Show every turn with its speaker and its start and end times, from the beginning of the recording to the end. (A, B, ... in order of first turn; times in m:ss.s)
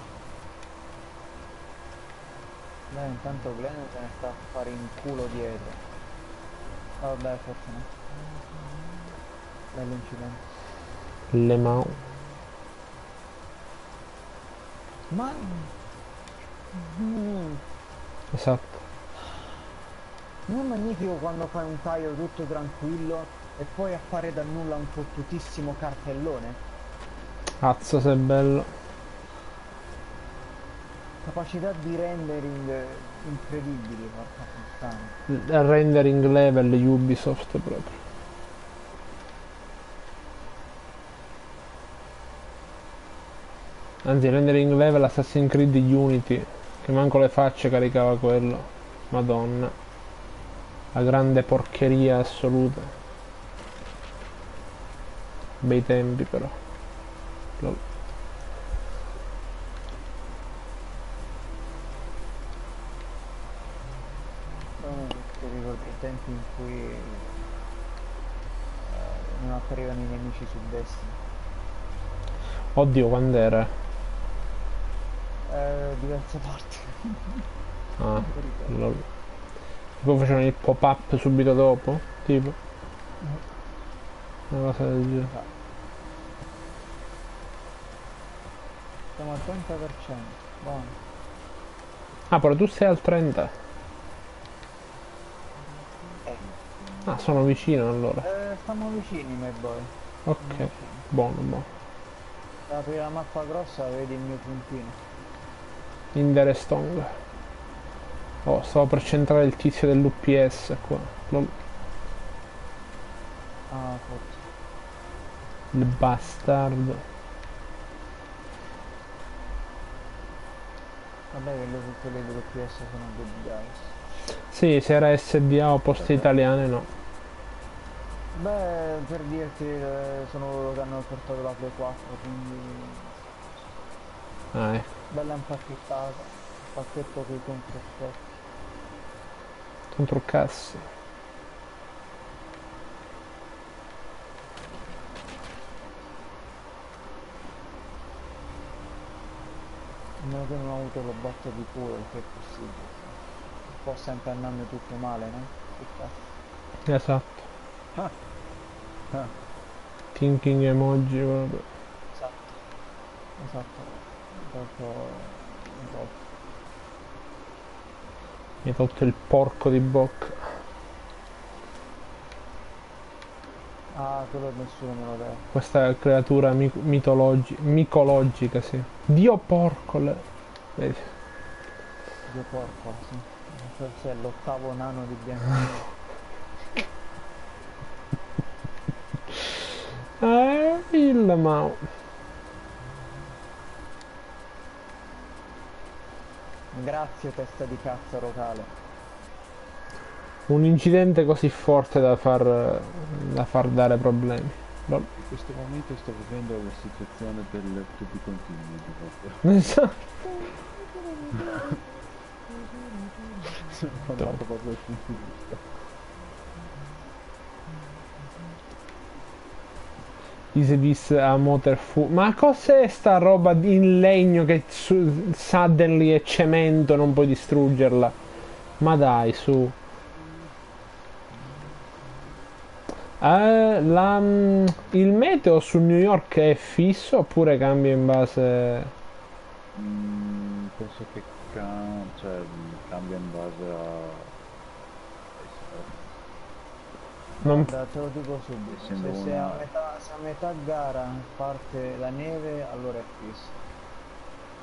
0:02.9-0:05.8 A
0:07.0-0:07.9 A
0:09.7-0:10.4 A
0:11.3-0:12.0 B
0:15.1-0:15.7 A
0:16.7-0:17.6 A
0:18.3-0:18.8 B
0:20.5-0:26.6 A
0:27.6-0:28.7 B
0:31.2-0:35.2 A
0:35.3-0:38.0 B
0:44.0-0:49.7 B
0:50.9-0:52.9 B
0:55.6-0:56.6 B
1:04.8-1:07.4 A
1:08.8-1:11.2 A
1:12.7-1:13.7 B
1:15.5-1:17.4 A
1:18.0-1:19.0 B
1:18.1-1:18.8 A
1:20.0-1:22.6 B
1:24.5-1:25.3 B
1:29.2-1:31.0 A
1:32.3-1:33.5 B
1:37.0-1:38.3 B
1:38.2-1:41.0 A
1:40.3-1:41.7 B
1:42.7-1:45.0 A
1:46.1-1:47.1 B
1:48.4-1:51.5 B
1:53.7-1:54.4 A
1:55.7-1:57.0 B
2:01.3-2:04.0 A
2:04.5-2:06.9 B
2:06.0-2:06.3 C
2:08.3-2:13.4 A
2:14.5-2:14.9 B
2:15.1-2:18.4 A
2:19.9-2:20.9 B
2:30.2-2:33.2 A
2:33.7-2:36.2 A
2:36.9-2:37.5 B
2:40.1-2:41.7 B
2:42.1-2:42.6 A
2:43.4-2:46.2 A
2:48.6-2:50.4 B
2:53.9-2:55.5 A
2:55.5-3:00.2 B
3:00.8-3:01.1 B
3:02.3-3:05.9 A
3:10.2-3:11.8 B
3:16.7-3:18.7 A
3:20.5-3:25.1 B
3:25.2-3:29.5 C
3:29.4-3:30.1 B
3:30.3-3:31.8 A
3:33.4-3:35.6 C
3:40.5-3:48.2 B
3:48.8-3:49.8 B
3:53.2-3:58.9 B
3:59.7-4:04.4 C
4:05.4-4:06.2 C
4:07.4-4:13.6 A
4:07.4-4:07.7 B
4:08.7-4:09.7 C